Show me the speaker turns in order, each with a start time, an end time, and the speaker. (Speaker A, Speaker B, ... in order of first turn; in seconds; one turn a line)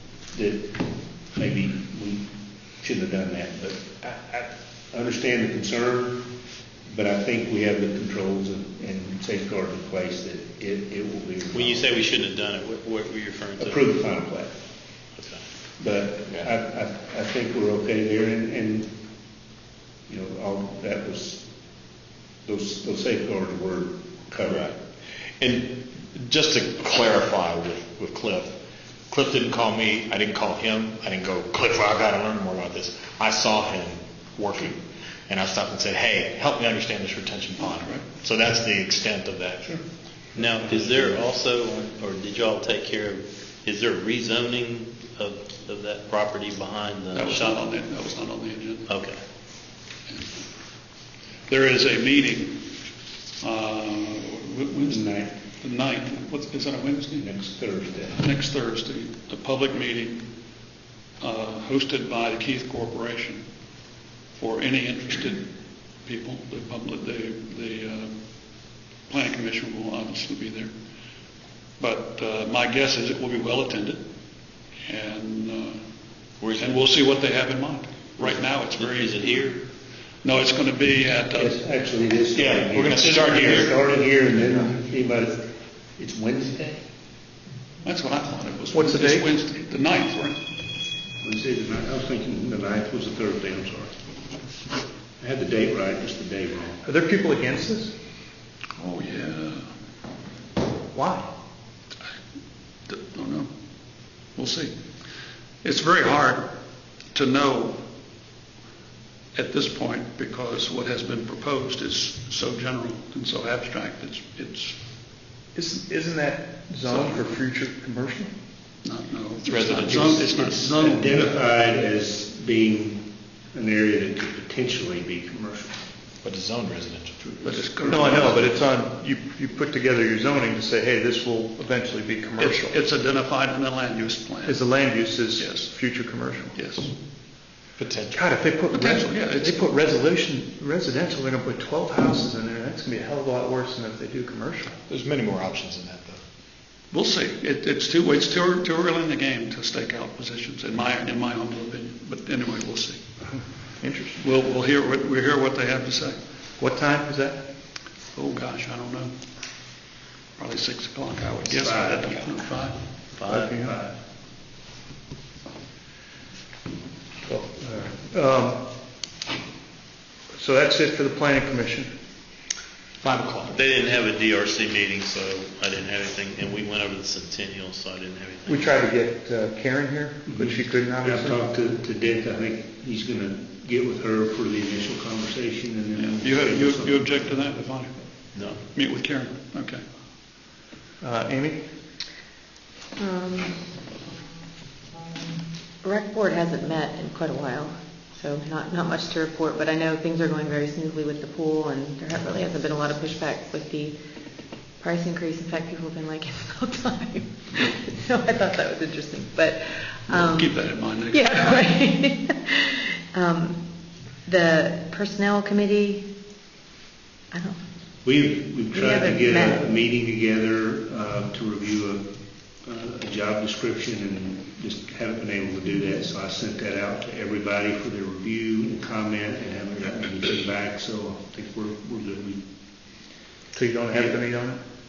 Speaker A: 0.3-6.3
Speaker A: 6.8-11.9
Speaker B: 11.5-13.9
Speaker A: 13.6-14.6
Speaker B: 15.2-15.4
Speaker A: 15.8-18.9
Speaker A: 20.1-21.5
Speaker A: 22.4-24.7
Speaker C: 24.4-24.8
Speaker C: 25.4-28.6
Speaker C: 29.1-39.8
Speaker D: 37.6-38.1
Speaker A: 40.3-41.2
Speaker B: 40.4-47.6
Speaker D: 47.1-48.9
Speaker B: 48.9-49.2
Speaker D: 50.1-50.5
Speaker D: 51.5-52.5
Speaker D: 53.4-57.3
Speaker A: 54.8-55.4
Speaker A: 57.1-58.2
Speaker D: 58.1-60.3
Speaker D: 61.2-63.4
Speaker D: 64.3-70.7
Speaker D: 71.8-74.0
Speaker D: 74.8-75.8
Speaker B: 76.4-76.8
Speaker D: 76.6-79.5
Speaker B: 78.2-79.6
Speaker D: 80.2-81.6
Speaker A: 81.3-86.9
Speaker C: 82.3-83.8
Speaker D: 87.8-90.4
Speaker E: 88.7-89.3
Speaker A: 91.2-94.0
Speaker A: 95.2-96.8
Speaker E: 96.8-98.0
Speaker D: 98.8-99.7
Speaker E: 100.9-101.3
Speaker D: 102.9-104.7
Speaker D: 105.6-106.5
Speaker D: 107.1-107.8
Speaker D: 109.3-114.8
Speaker E: 115.5-118.3
Speaker D: 116.8-117.4
Speaker D: 118.8-121.4
Speaker C: 119.5-120.3
Speaker A: 119.8-125.8
Speaker C: 126.2-127.2
Speaker A: 127.2-128.3
Speaker D: 127.4-128.6
Speaker E: 127.9-132.8
Speaker D: 132.4-134.8
Speaker E: 134.4-136.6
Speaker D: 135.4-135.7
Speaker D: 136.5-136.9
Speaker C: 137.8-138.3
Speaker E: 138.1-144.8
Speaker D: 138.7-139.7
Speaker C: 144.9-146.2
Speaker D: 146.9-153.0
Speaker E: 153.2-154.2
Speaker D: 154.2-156.2
Speaker E: 156.6-157.5
Speaker D: 158.1-159.1
Speaker D: 160.4-162.8
Speaker A: 161.4-162.4
Speaker B: 163.1-163.5
Speaker E: 163.2-163.8
Speaker A: 163.5-164.0
Speaker E: 167.2-168.8
Speaker E: 170.3-171.9
Speaker C: 173.0-173.6
Speaker B: 173.4-178.7
Speaker E: 178.4-181.4
Speaker A: 180.3-187.2
Speaker D: 186.0-189.8
Speaker B: 188.3-188.6
Speaker E: 191.0-191.7
Speaker F: 193.0-193.7
Speaker F: 195.8-203.9
Speaker F: 204.8-213.6
Speaker D: 210.1-211.6
Speaker F: 214.2-216.1
Speaker F: 217.3-217.6
Speaker A: 218.0-232.4
Speaker F: 218.7-219.6
Speaker E: 233.5-234.6
Speaker A: 233.9-234.3